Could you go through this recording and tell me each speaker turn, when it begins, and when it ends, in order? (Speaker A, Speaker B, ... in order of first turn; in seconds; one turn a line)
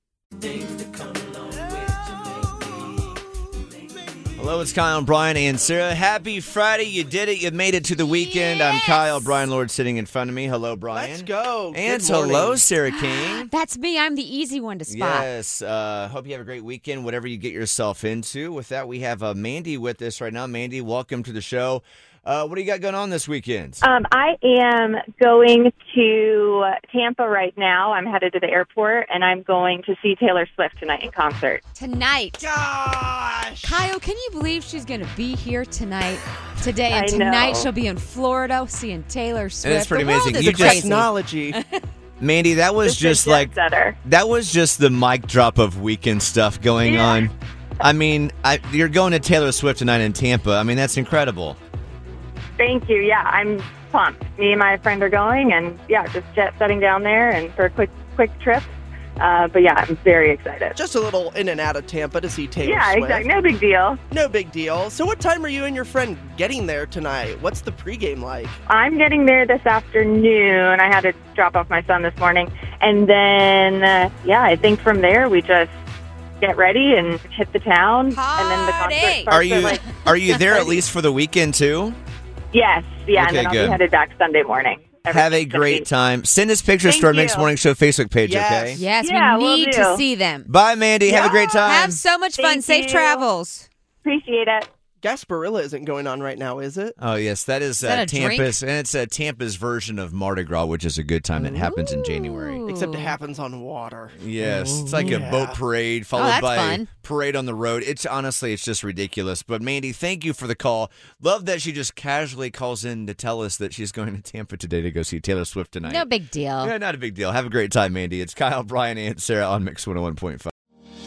Speaker A: 0.5-2.7
Speaker B: 4.4-13.5
Speaker C: 8.3-9.3
Speaker A: 10.9-12.6
Speaker C: 12.8-15.3
Speaker B: 14.9-23.8
Speaker D: 23.8-31.6
Speaker C: 31.7-32.5
Speaker A: 32.4-33.8
Speaker C: 33.6-41.8
Speaker D: 36.9-37.7
Speaker B: 39.6-40.8
Speaker A: 40.4-41.6
Speaker B: 42.2-51.6
Speaker D: 42.8-44.0
Speaker D: 52.6-60.8
Speaker A: 60.8-63.3
Speaker D: 62.6-64.0
Speaker A: 64.1-68.6
Speaker D: 68.7-75.7
Speaker D: 76.4-79.9
Speaker C: 78.1-79.3
Speaker B: 79.3-82.0
Speaker D: 80.5-80.8
Speaker D: 82.5-85.8
Speaker B: 83.1-83.8
Speaker B: 85.1-88.8
Speaker D: 86.8-87.5
Speaker A: 88.2-88.8
Speaker C: 88.7-90.5
Speaker D: 89.0-90.0
Speaker B: 90.5-92.0
Speaker D: 91.1-91.7
Speaker C: 91.1-93.7
Speaker D: 92.4-93.3
Speaker D: 94.0-94.7
Speaker A: 95.0-96.9
Speaker B: 97.0-102.6
Speaker C: 97.8-98.5
Speaker C: 101.4-103.2
Speaker A: 102.6-104.2
Speaker B: 104.2-116.1
Speaker C: 104.4-105.2
Speaker A: 105.0-105.6
Speaker C: 106.1-106.9
Speaker C: 115.8-116.7
Speaker B: 116.6-120.5